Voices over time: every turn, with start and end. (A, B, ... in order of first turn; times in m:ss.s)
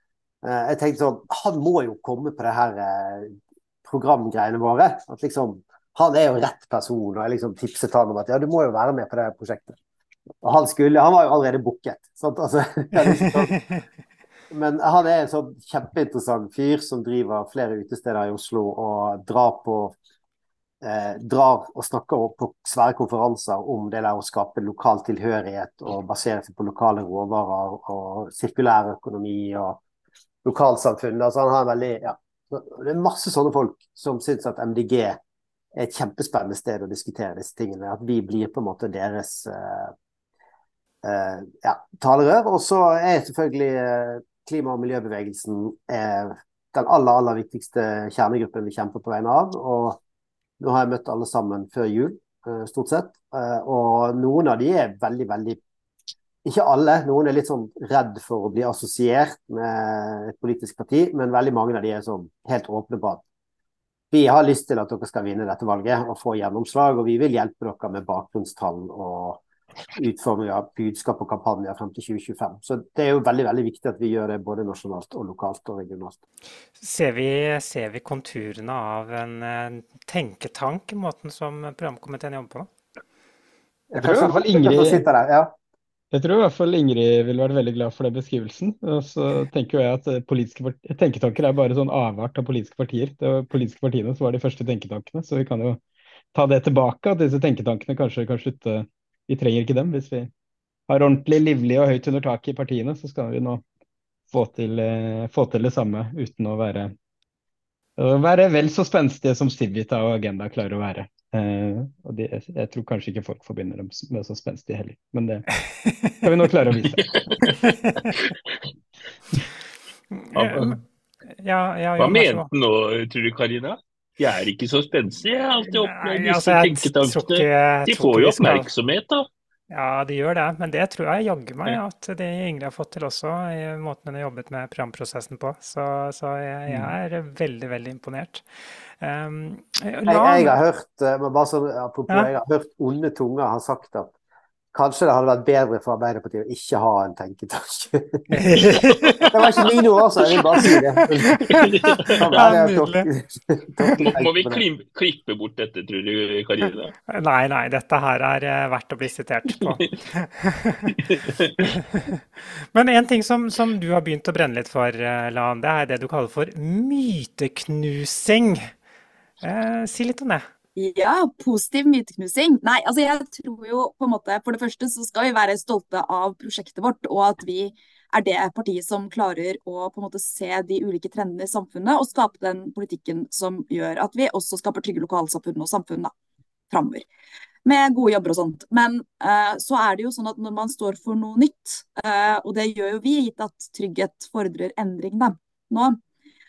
0:00.4-0:09.8 A
0:10.4-0:13.5 A
0:14.5-0:20.0 A
0:20.8-0:29.8 A
0:30.4-0:35.2 A
0:35.8-0:39.9 A
0:41.0-0:50.0 A
0:50.6-0:55.6 A
0:56.4-1:03.2 A
1:04.1-1:09.4 A
1:10.0-1:16.2 A
1:16.8-1:22.7 B
1:23.9-1:25.5 A
1:24.0-1:25.0 C
1:26.1-1:35.8 C
1:36.3-1:40.3 C
1:40.9-1:43.6 C
1:44.3-1:46.9 C
1:48.0-1:55.5 C
1:55.6-1:56.2 B
1:56.2-1:57.1 C
1:57.1-1:57.4 D
1:57.6-1:58.0 B
2:00.1-2:00.8 B
2:00.3-2:00.8 D
2:01.3-2:02.5 B
2:02.0-2:09.3 D
2:05.7-2:08.7 B
2:09.7-2:18.4 B
2:19.0-2:20.5 B
2:20.1-2:24.1 A
2:24.7-2:28.8 A
2:28.3-2:29.7 B
2:29.3-2:34.6 A
2:30.6-2:33.1 B
2:31.4-2:32.2 D
2:34.0-2:36.9 D
2:37.1-2:41.0 B
2:41.0-2:41.7 D
2:41.7-2:42.2 B
2:42.7-2:48.7 B
2:49.4-2:50.4 B
2:50.8-3:06.1 E
3:06.7-3:07.0 E
3:07.6-3:16.0 E